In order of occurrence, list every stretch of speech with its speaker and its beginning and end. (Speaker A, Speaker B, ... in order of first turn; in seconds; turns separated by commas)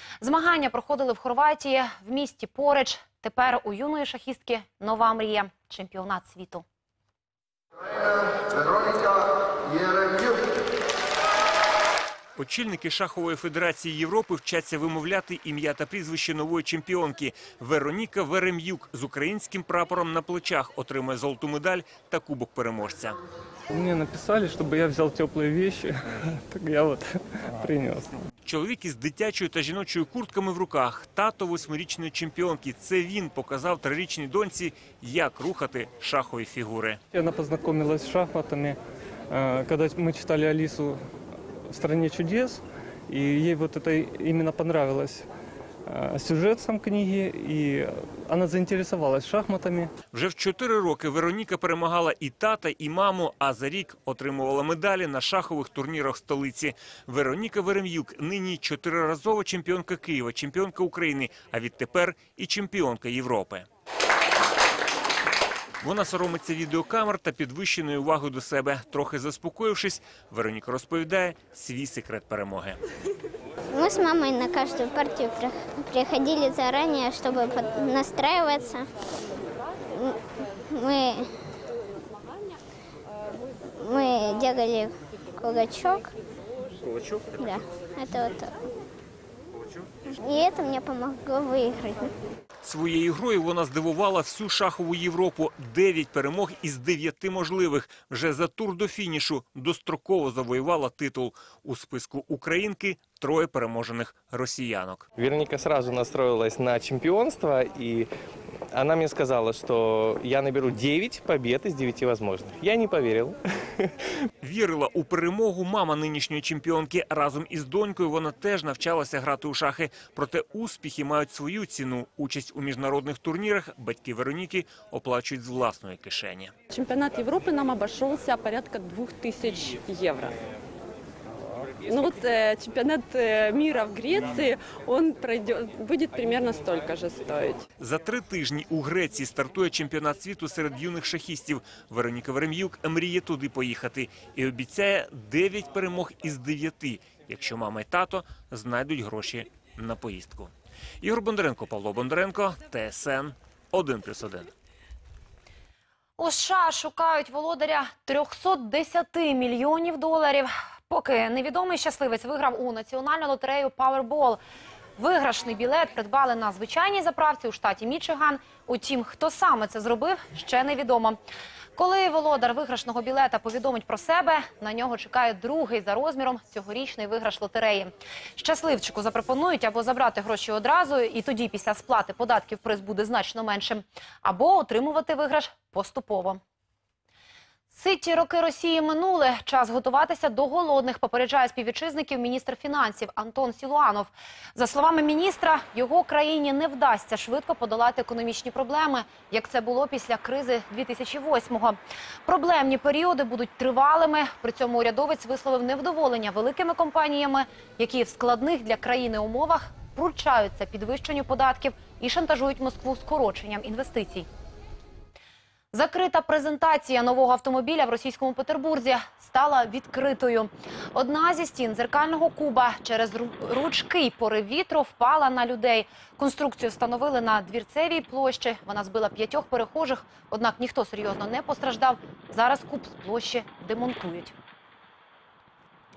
Speaker A: 0.2-6.6, Speaker B: 12.3-23.2, Speaker C: 23.7-28.1, Speaker B: 28.4-37.0, Speaker C: 37.1-38.8, Speaker C: 39.3-40.9, Speaker C: 41.8-45.2, Speaker C: 45.9-47.5, Speaker C: 48.3-49.7, Speaker B: 50.1-63.7, Speaker B: 65.8-72.8, Speaker D: 73.7-78.9, Speaker D: 79.9-81.3, Speaker D: 83.8-86.1, Speaker D: 87.4-88.5, Speaker D: 90.1-92.1, Speaker B: 92.6-105.1, Speaker E: 105.2-108.1, Speaker E: 108.7-113.9, Speaker B: 114.4-126.5, Speaker F: 126.7-130.3, Speaker F: 131.8-137.6, Speaker B: 137.8-154.5, Speaker A: 156.2-164.4, Speaker A: 165.0-171.2, Speaker A: 171.8-186.4, Speaker A: 187.7-214.3, Speaker A: 215.7-234.3